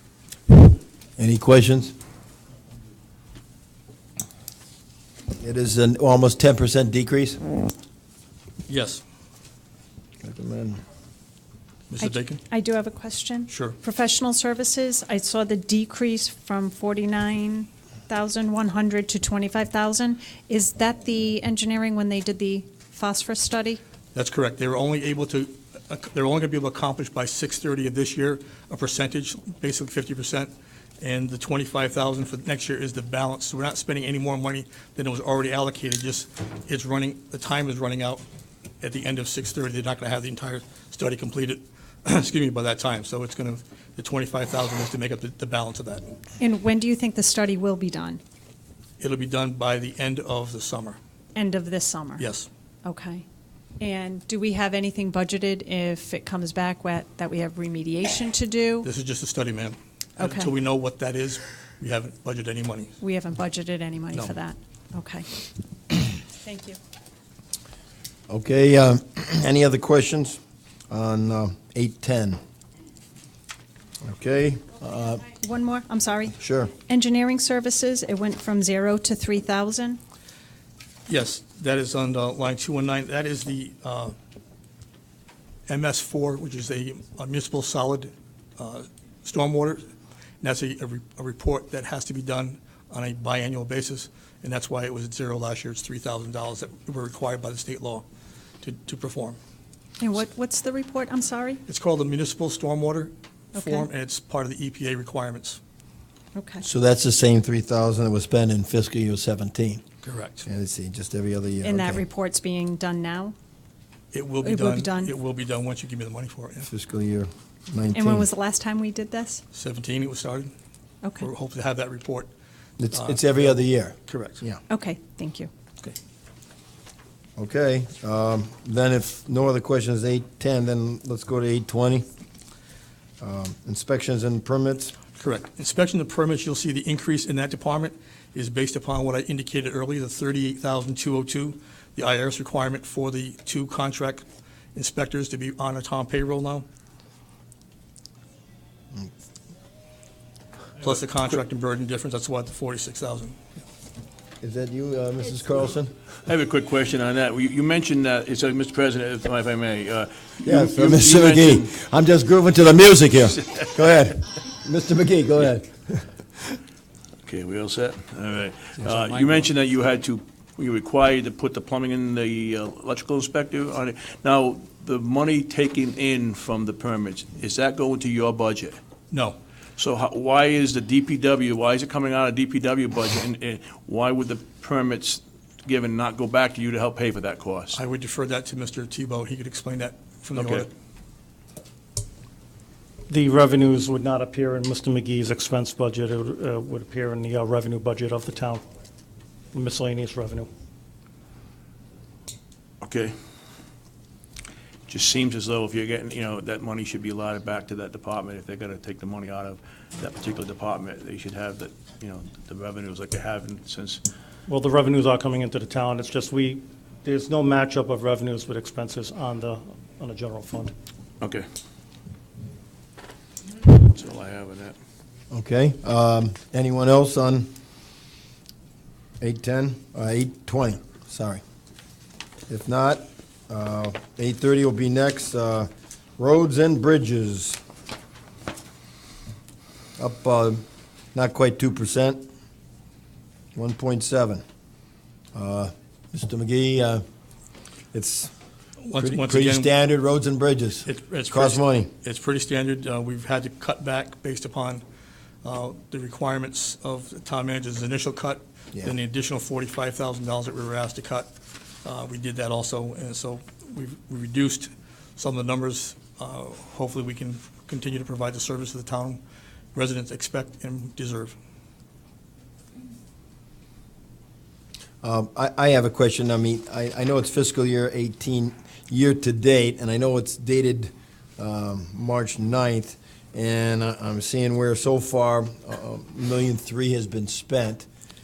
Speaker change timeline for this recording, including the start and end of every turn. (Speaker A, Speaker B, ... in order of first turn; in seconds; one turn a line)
Speaker A: 1.2-1.9
Speaker A: 5.4-7.4
Speaker B: 8.7-9.0
Speaker A: 10.2-10.8
Speaker B: 11.9-12.4
Speaker C: 12.0-23.8
Speaker B: 13.5-13.8
Speaker B: 24.1-38.2
Speaker B: 38.8-46.1
Speaker C: 46.4-48.2
Speaker B: 49.0-51.0
Speaker C: 51.4-52.3
Speaker B: 52.2-52.5
Speaker C: 52.9-53.2
Speaker C: 53.8-58.9
Speaker B: 58.8-63.0
Speaker C: 60.2-60.5
Speaker C: 63.0-65.3
Speaker C: 66.4-66.8
Speaker A: 68.3-72.4
Speaker A: 74.0-75.2
Speaker C: 75.3-80.0
Speaker A: 76.4-76.7
Speaker B: 81.1-84.1
Speaker B: 85.7-89.8
Speaker B: 90.4-98.0
Speaker B: 98.6-99.4
Speaker C: 100.0-101.6
Speaker B: 101.7-105.6
Speaker C: 103.5-103.9
Speaker C: 106.3-106.6
Speaker A: 106.6-109.8
Speaker B: 110.0-110.5
Speaker A: 110.5-112.0
Speaker C: 111.6-113.3
Speaker B: 114.1-116.7
Speaker C: 114.4-115.1
Speaker A: 116.7-118.3
Speaker C: 117.9-119.4
Speaker B: 119.5-120.5
Speaker B: 121.2-122.3
Speaker A: 122.8-124.6
Speaker B: 122.9-124.4
Speaker C: 124.7-125.5
Speaker A: 127.4-132.1
Speaker A: 133.2-134.9
Speaker B: 135.2-144.2
Speaker B: 144.8-146.7
Speaker B: 150.8-153.4
Speaker A: 154.4-155.9
Speaker D: 156.2-161.7
Speaker A: 160.4-166.1
Speaker D: 167.3-178.8
Speaker B: 179.1-179.4
Speaker D: 179.8-187.8
Speaker B: 187.7-190.7
Speaker D: 190.3-190.7
Speaker E: 193.1-198.6
Speaker E: 199.5-200.5
Speaker D: 202.8-203.1
Speaker D: 204.9-214.0
Speaker E: 214.5-220.7
Speaker D: 223.7-224.8
Speaker A: 225.3-227.5
Speaker A: 229.2-231.4
Speaker A: 232.5-237.6
Speaker A: 240.0-242.2
Speaker A: 243.6-244.4
Speaker A: 245.3-247.0
Speaker A: 247.9-248.3
Speaker B: 248.8-249.7
Speaker A: 249.0-251.9
Speaker B: 250.9-254.8
Speaker B: 255.4-261.3
Speaker B: 261.8-269.2
Speaker B: 269.7-271.4
Speaker A: 275.0-287.9